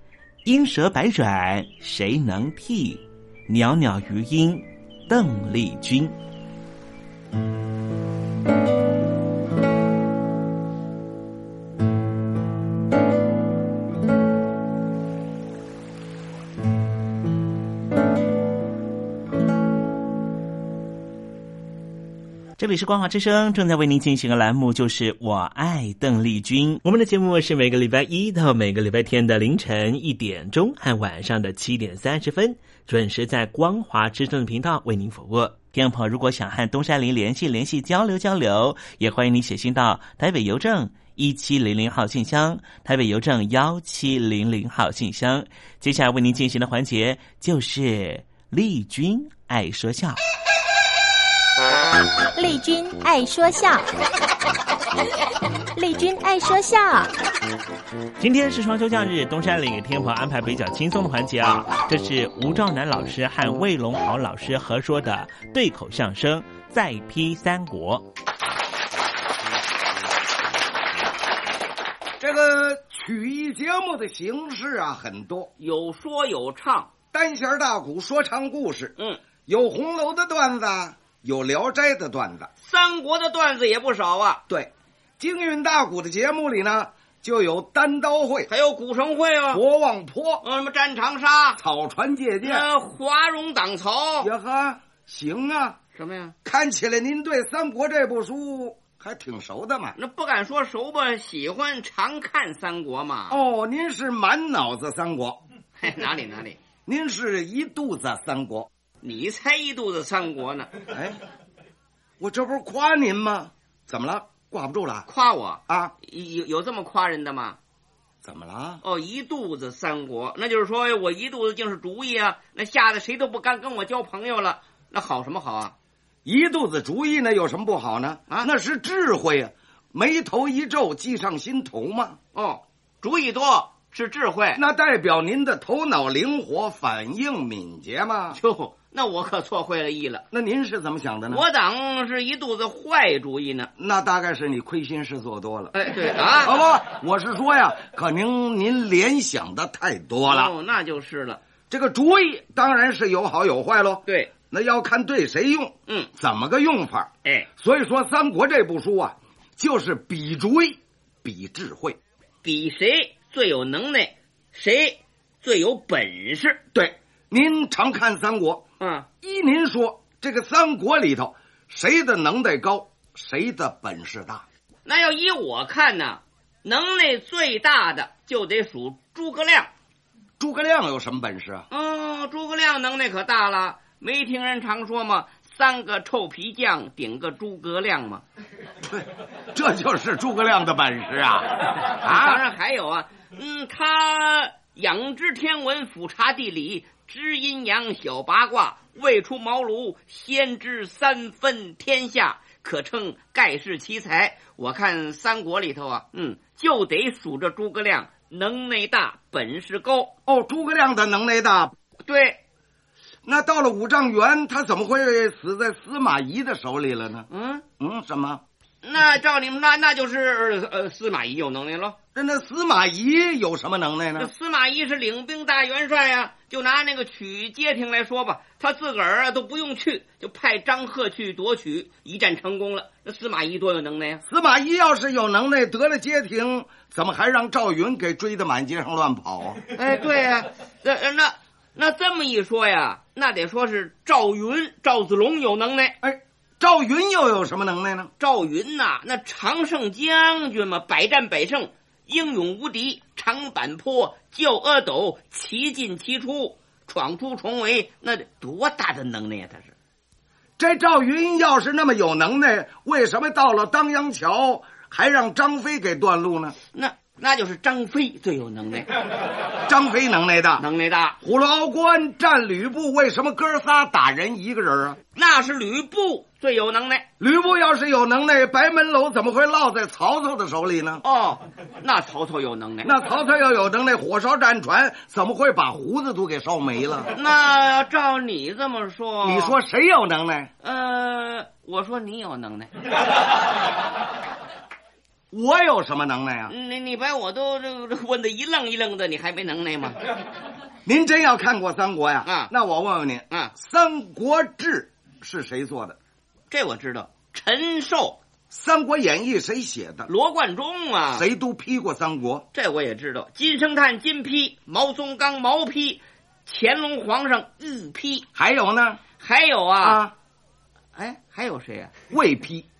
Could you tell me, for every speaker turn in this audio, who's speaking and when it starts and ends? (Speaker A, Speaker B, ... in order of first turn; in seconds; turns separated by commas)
Speaker A: 0.4-6.2, Speaker A: 22.6-50.2, Speaker B: 52.3-53.8, Speaker B: 55.7-57.1, Speaker A: 58.2-68.1, Speaker C: 72.2-75.5, Speaker D: 75.6-76.9, Speaker C: 77.1-79.0, Speaker C: 79.5-82.5, Speaker D: 82.6-84.4, Speaker C: 84.5-88.5, Speaker D: 88.5-89.6, Speaker C: 89.5-90.4, Speaker D: 90.4-91.6, Speaker C: 91.6-92.7, Speaker D: 92.4-94.3, Speaker C: 94.2-95.8, Speaker D: 95.9-96.3, Speaker C: 96.4-100.0, Speaker D: 100.0-103.4, Speaker C: 103.3-105.4, Speaker D: 105.8-106.6, Speaker C: 106.8-108.7, Speaker D: 109.0-110.7, Speaker C: 110.9-111.2, Speaker C: 112.2-115.1, Speaker D: 115.1-117.6, Speaker C: 115.7-115.9, Speaker C: 118.2-118.8, Speaker D: 118.8-125.7, Speaker C: 126.2-132.2, Speaker D: 132.3-134.6, Speaker C: 134.5-138.4, Speaker D: 138.3-140.2, Speaker C: 140.3-141.4, Speaker D: 141.3-143.7, Speaker C: 143.8-145.7, Speaker D: 145.7-146.6, Speaker C: 146.4-150.5, Speaker D: 150.2-151.4, Speaker C: 151.7-162.0, Speaker D: 162.4-166.6, Speaker C: 166.7-168.6, Speaker D: 168.8-169.1, Speaker C: 169.2-174.4, Speaker D: 174.8-179.7, Speaker C: 180.4-181.7, Speaker D: 181.7-188.2, Speaker C: 188.8-192.4, Speaker D: 191.9-210.1, Speaker C: 210.3-211.7, Speaker D: 212.1-212.4, Speaker C: 213.2-217.3, Speaker D: 217.3-217.6, Speaker C: 217.8-218.4, Speaker D: 218.8-222.0, Speaker C: 222.1-224.3, Speaker D: 224.2-234.2, Speaker C: 234.2-239.6, Speaker D: 239.7-245.9, Speaker C: 246.0-248.1, Speaker D: 248.2-259.7, Speaker C: 260.6-266.6, Speaker D: 266.7-268.9, Speaker C: 269.6-270.6, Speaker D: 270.6-271.2, Speaker C: 271.2-275.0, Speaker D: 275.1-277.0, Speaker C: 277.2-281.0, Speaker D: 281.0-282.9, Speaker C: 282.8-287.1, Speaker D: 287.1-289.6, Speaker C: 289.2-290.5, Speaker D: 290.6-292.7, Speaker C: 295.3-296.5, Speaker D: 296.5-300.0, Speaker C: 300.8-306.0, Speaker D: 302.2-302.5, Speaker D: 306.5-308.2, Speaker C: 308.5-310.1, Speaker D: 310.1-311.2, Speaker C: 311.1-312.4, Speaker D: 312.5-318.2, Speaker C: 318.4-319.0, Speaker D: 319.2-320.0, Speaker C: 319.8-320.1, Speaker D: 320.9-321.9, Speaker C: 322.1-322.6